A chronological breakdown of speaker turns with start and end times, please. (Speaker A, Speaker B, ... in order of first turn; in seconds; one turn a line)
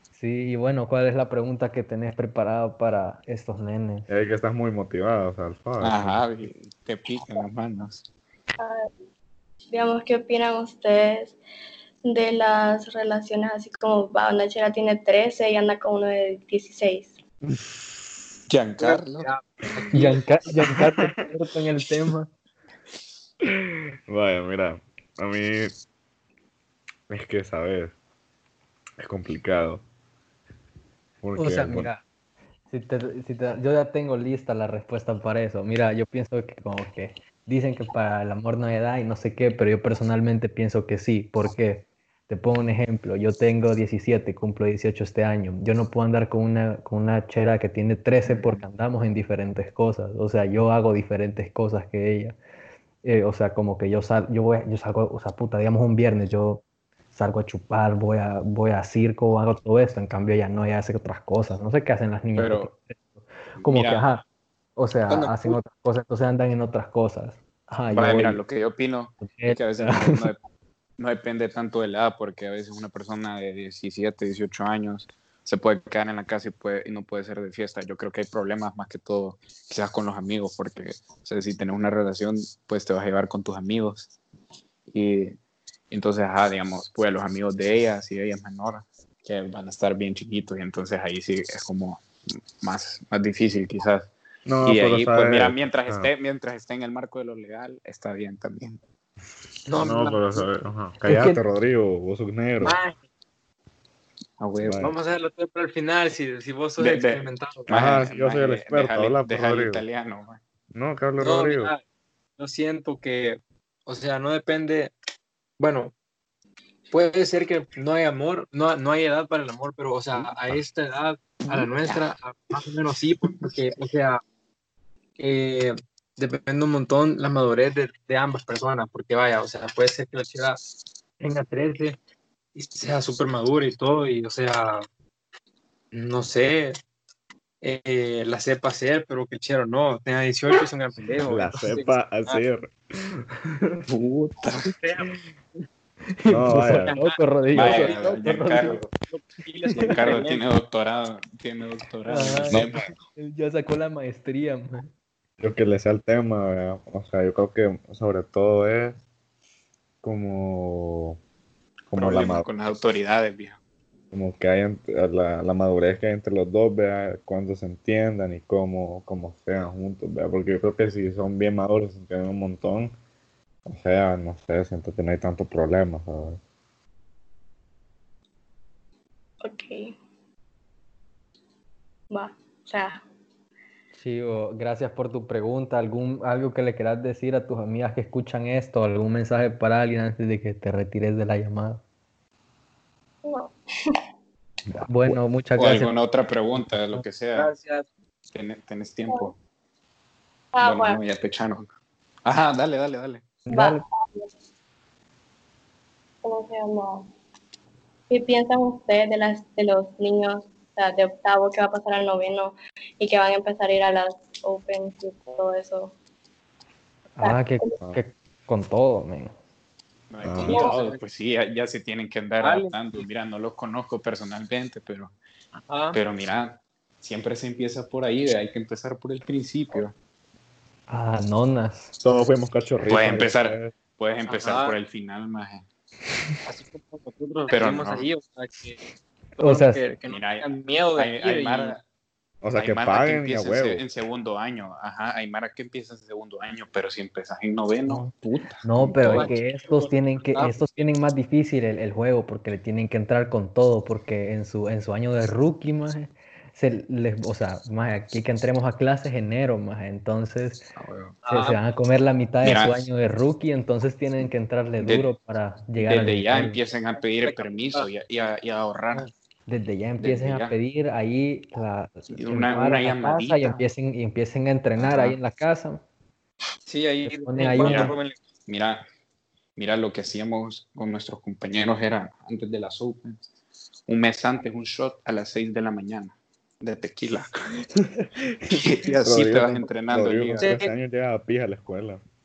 Speaker A: 0.1-4.1
Speaker B: 4.1-6.5
Speaker C: 5.8-8.1
Speaker D: 9.7-11.4
Speaker D: 12.1-17.2
Speaker C: 18.5-20.2
Speaker E: 18.8-20.0
Speaker A: 19.9-22.3
Speaker B: 20.6-20.9
Speaker B: 24.1-25.7
Speaker B: 27.1-27.9
Speaker B: 29.0-29.8
Speaker B: 31.2-31.9
Speaker A: 31.4-32.0
Speaker A: 32.7-52.4
Speaker C: 48.2-48.6
Speaker A: 53.0-64.2
Speaker C: 62.4-62.7
Speaker C: 63.6-64.1
Speaker A: 64.8-68.4
Speaker E: 65.1-65.6
Speaker C: 67.9-70.4
Speaker A: 69.2-70.2
Speaker C: 71.0-84.1
Speaker C: 84.9-85.4
Speaker C: 85.9-92.0
Speaker C: 92.6-94.1
Speaker B: 94.5-96.1
Speaker C: 94.6-98.8
Speaker E: 99.7-100.5
Speaker B: 99.8-102.8
Speaker A: 101.0-101.4
Speaker E: 102.6-103.0
Speaker C: 104.4-104.8
Speaker B: 104.6-105.0
Speaker E: 104.8-107.7
Speaker C: 106.8-110.4
Speaker B: 107.7-109.8
Speaker B: 110.7-111.7
Speaker E: 111.2-111.8
Speaker E: 112.4-114.9
Speaker E: 115.6-115.9
Speaker E: 116.9-124.2
Speaker C: 121.5-122.0
Speaker E: 125.2-130.6
Speaker E: 131.2-132.0
Speaker E: 132.6-134.8
Speaker E: 135.9-136.8
Speaker E: 137.6-142.4
Speaker B: 141.3-143.8
Speaker C: 143.9-144.7
Speaker E: 144.7-145.2
Speaker A: 146.2-148.8
Speaker B: 146.3-147.0
Speaker E: 146.7-148.1
Speaker C: 147.5-148.9
Speaker E: 149.0-150.4
Speaker C: 149.7-152.9
Speaker A: 152.1-154.9
Speaker B: 155.4-159.0
Speaker B: 160.0-161.2
Speaker B: 161.9-162.5
Speaker C: 161.9-163.6
Speaker B: 164.1-172.9
Speaker B: 173.7-176.4
Speaker D: 179.4-179.9
Speaker D: 182.1-183.0
Speaker A: 183.9-191.8
Speaker D: 193.2-193.9
Speaker B: 194.7-195.2
Speaker A: 194.8-195.9
Speaker C: 195.6-197.5
Speaker E: 197.3-197.9
Speaker C: 198.3-199.4
Speaker D: 200.5-201.0
Speaker C: 200.6-201.7
Speaker C: 202.2-203.2
Speaker A: 203.5-203.8
Speaker D: 203.5-204.3
Speaker D: 206.2-207.1
Speaker D: 208.1-215.9
Speaker A: 217.2-219.3
Speaker D: 217.2-217.8
Speaker C: 220.1-225.1
Speaker B: 220.2-220.6
Speaker D: 220.4-220.7
Speaker E: 220.6-221.0
Speaker E: 222.4-223.0
Speaker E: 225.7-226.0
Speaker C: 225.9-229.9
Speaker A: 230.9-231.9
Speaker B: 232.0-233.8
Speaker C: 232.9-235.7
Speaker E: 234.3-234.8
Speaker E: 236.5-238.8
Speaker C: 237.5-238.1
Speaker E: 239.4-241.8
Speaker A: 239.4-239.8
Speaker C: 240.1-241.8
Speaker B: 242.4-243.9
Speaker C: 242.6-249.3
Speaker A: 247.9-248.1
Speaker A: 248.6-260.7
Speaker E: 249.1-250.6
Speaker C: 260.8-261.2
Speaker E: 261.2-261.6
Speaker A: 261.3-266.6
Speaker C: 262.4-262.9
Speaker C: 264.8-265.1
Speaker C: 265.8-269.1
Speaker E: 267.0-267.9
Speaker A: 269.5-275.8
Speaker C: 270.0-270.6
Speaker C: 272.1-273.6
Speaker C: 274.8-275.2
Speaker E: 276.7-278.2
Speaker A: 277.0-277.9
Speaker C: 277.6-278.8
Speaker C: 279.6-283.2
Speaker C: 283.9-287.3
Speaker C: 288.5-290.5
Speaker B: 289.0-292.0
Speaker E: 290.4-290.7